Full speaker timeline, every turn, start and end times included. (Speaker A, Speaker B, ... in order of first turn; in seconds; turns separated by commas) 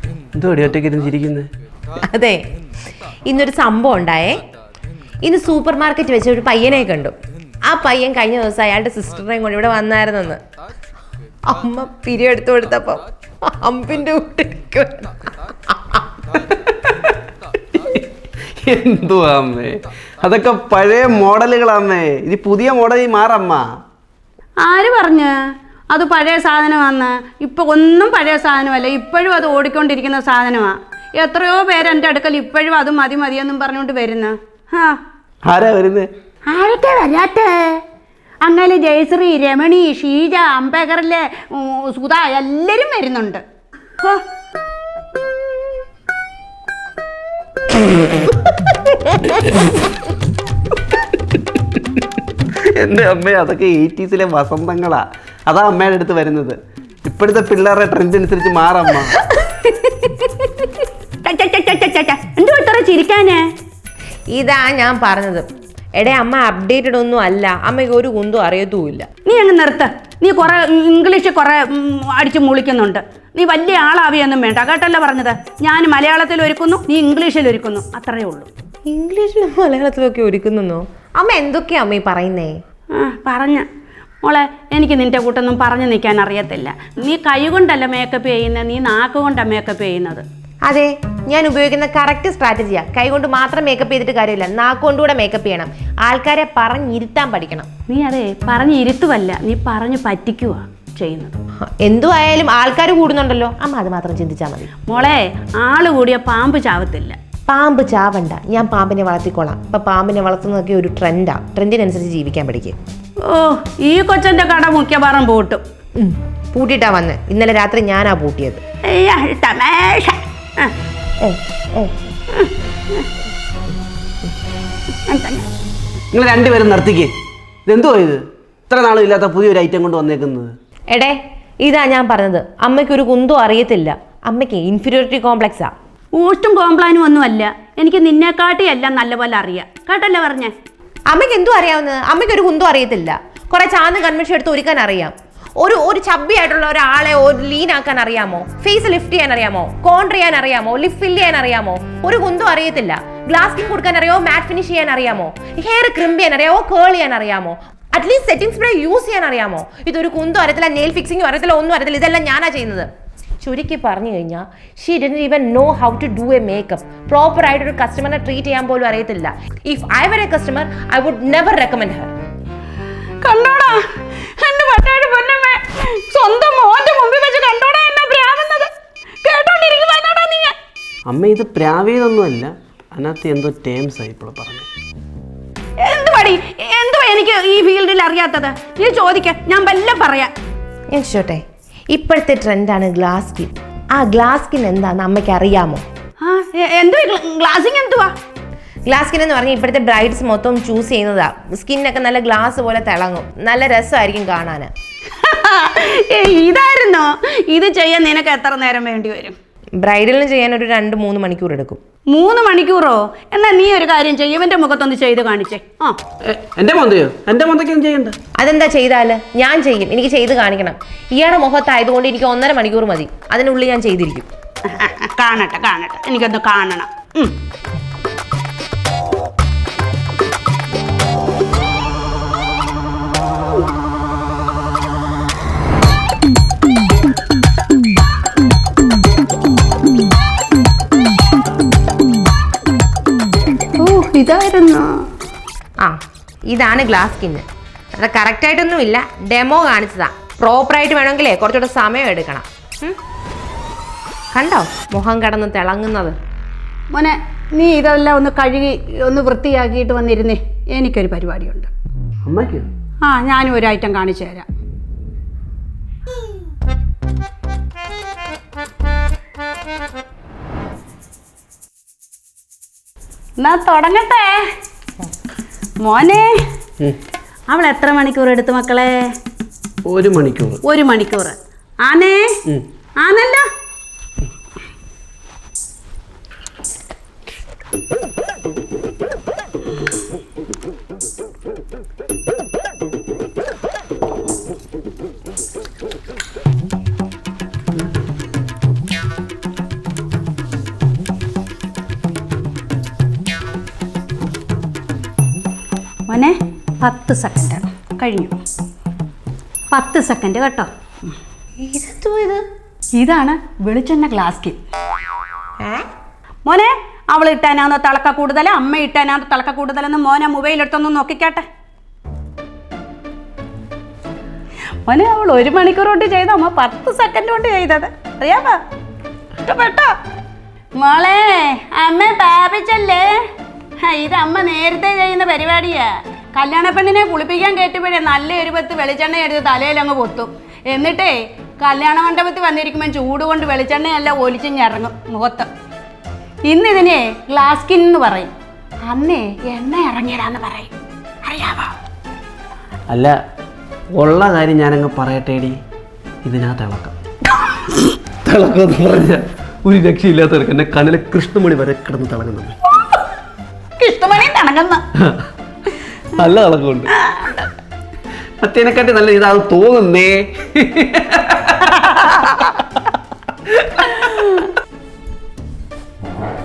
Speaker A: 0.4-1.5, Speaker B: 2.0-2.4, Speaker B: 3.2-4.5, Speaker B: 5.2-10.4, Speaker B: 11.4-16.1, Speaker A: 16.6-17.2, Speaker A: 17.8-23.7, Speaker C: 24.6-25.3, Speaker C: 25.9-35.0, Speaker A: 35.5-36.1, Speaker C: 36.5-37.8, Speaker C: 38.4-43.4, Speaker A: 52.6-59.1, Speaker C: 61.2-63.4, Speaker B: 64.3-69.1, Speaker C: 69.3-78.5, Speaker B: 78.9-82.6, Speaker C: 82.9-83.7, Speaker C: 84.2-90.2, Speaker B: 90.7-97.7, Speaker C: 97.9-101.4, Speaker B: 101.6-104.7, Speaker C: 104.9-107.2, Speaker B: 107.5-112.8, Speaker C: 113.2-115.6, Speaker B: 116.0-118.6, Speaker C: 118.9-120.7, Speaker B: 121.2-122.0, Speaker C: 122.3-123.1, Speaker C: 125.1-125.5, Speaker A: 126.1-127.1, Speaker A: 127.7-130.6, Speaker B: 130.9-135.7, Speaker C: 136.2-140.5, Speaker B: 141.1-162.9, Speaker B: 163.4-172.1, Speaker C: 173.2-178.7, Speaker C: 179.2-180.6, Speaker A: 181.1-184.7, Speaker C: 185.8-190.3, Speaker B: 190.9-195.8, Speaker C: 196.2-198.1, Speaker B: 198.9-204.7, Speaker C: 205.1-209.4, Speaker B: 209.8-211.8, Speaker C: 212.1-216.0, Speaker A: 216.2-218.2, Speaker B: 218.4-224.3, Speaker C: 224.7-227.4, Speaker C: 243.8-245.1, Speaker B: 245.8-247.4, Speaker B: 248.0-253.0, Speaker B: 254.3-256.2, Speaker C: 256.9-261.7, Speaker A: 262.2-262.7, Speaker C: 263.1-264.5, Speaker C: 273.4-274.5, Speaker C: 275.9-276.3, Speaker C: 277.5-279.0, Speaker A: 279.9-280.6, Speaker C: 280.6-282.3, Speaker C: 283.0-283.5, Speaker C: 306.1-308.4, Speaker C: 309.7-311.1, Speaker B: 311.6-312.4, Speaker C: 313.0-314.6, Speaker B: 315.6-315.9, Speaker C: 316.5-321.5, Speaker C: 324.9-328.6, Speaker C: 329.4-329.9, Speaker C: 330.8-333.2, Speaker C: 333.8-345.5, Speaker C: 346.5-348.3, Speaker C: 348.9-350.7, Speaker C: 351.2-351.8, Speaker A: 352.9-353.1, Speaker A: 354.0-355.6, Speaker A: 356.2-357.0, Speaker A: 357.9-362.6, Speaker C: 362.8-363.0, Speaker C: 363.8-364.8, Speaker A: 366.2-366.9, Speaker A: 368.4-372.3, Speaker A: 373.5-374.3